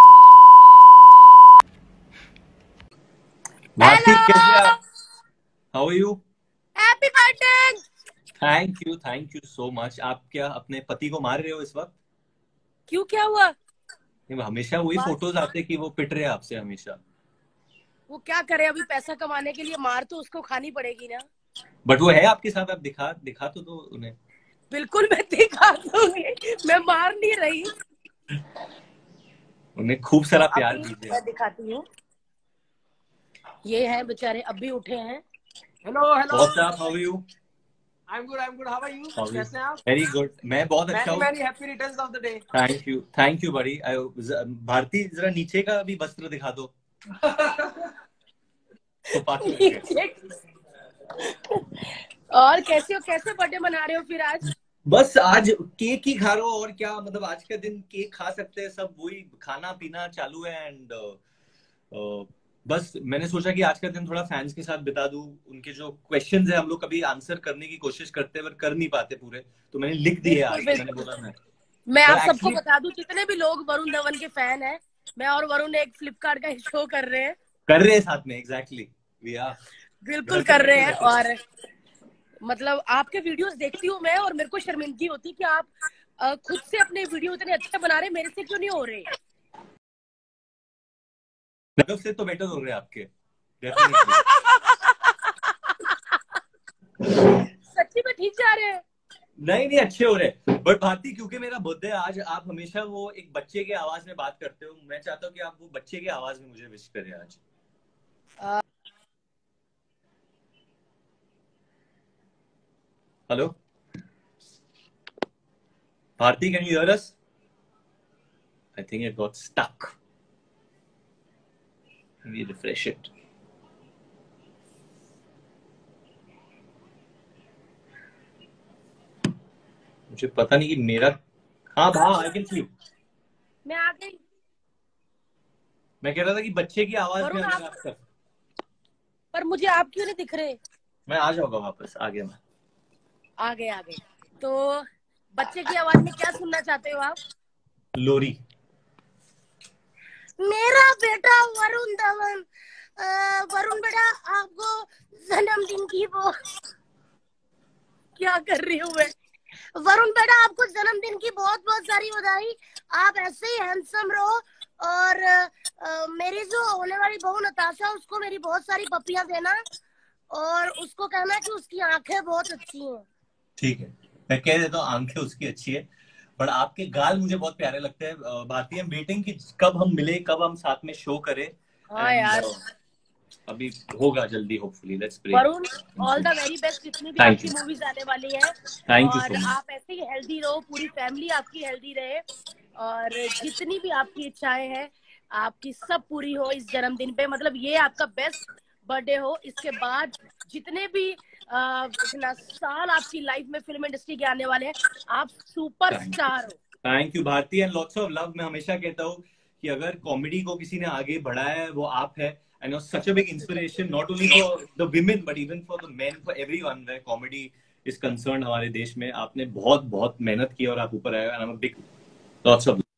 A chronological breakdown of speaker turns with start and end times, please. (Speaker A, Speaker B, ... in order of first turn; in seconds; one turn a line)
Speaker A: 3.8-4.7
Speaker B: 3.8-4.7
Speaker A: 5.7-6.2
Speaker B: 6.8-7.8
Speaker A: 8.4-11.9
Speaker B: 12.9-13.5
Speaker A: 14.3-17.0
Speaker B: 18.1-21.2
Speaker A: 21.9-24.1
Speaker B: 24.7-27.7
Speaker A: 29.8-31.2
Speaker B: 30.5-31.8
Speaker B: 33.6-35.2
Speaker C: 35.8-36.7
Speaker A: 36.3-37.2
Speaker C: 38.1-39.8
Speaker A: 39.1-41.3
Speaker C: 40.9-42.4
Speaker A: 42.5-46.7
Speaker C: 47.2-47.9
Speaker A: 49.1-49.9
Speaker B: 49.4-50.2
Speaker B: 51.2-54.5
Speaker A: 54.9-61.2
Speaker A: 61.9-71.3
Speaker B: 70.2-71.1
Speaker B: 71.9-77.3
Speaker A: 72.0-72.6
Speaker A: 77.7-79.5
Speaker B: 80.0-81.3
Speaker A: 80.2-81.2
Speaker B: 82.4-89.0
Speaker A: 91.8-93.1
Speaker A: 93.6-94.2
Speaker B: 93.8-96.0
Speaker B: 97.6-98.8
Speaker A: 99.4-107.4
Speaker A: 113.3-113.5
Speaker A: 116.2-117.2
Speaker A: 118.8-119.9
Speaker A: 122.2-123.1
Speaker A: 130.1-131.2
Speaker A: 131.8-132.7
Speaker B: 133.6-134.2
Speaker A: 136.0-138.0
Speaker B: 137.2-137.6
Speaker B: 139.3-140.6
Speaker A: 141.1-142.4
Speaker B: 143.4-147.2
Speaker A: 147.9-148.4
Speaker B: 150.4-152.4
Speaker B: 153.0-156.3
Speaker B: 158.2-159.1
Speaker B: 159.8-169.6
Speaker B: 170.3-173.0
Speaker A: 173.6-175.8
Speaker A: 176.4-182.6
Speaker B: 181.9-182.5
Speaker A: 183.5-186.3
Speaker B: 185.3-192.2
Speaker A: 187.2-187.5
Speaker A: 188.9-189.5
Speaker B: 192.8-206.6
Speaker A: 205.9-221.8
Speaker A: 222.4-222.8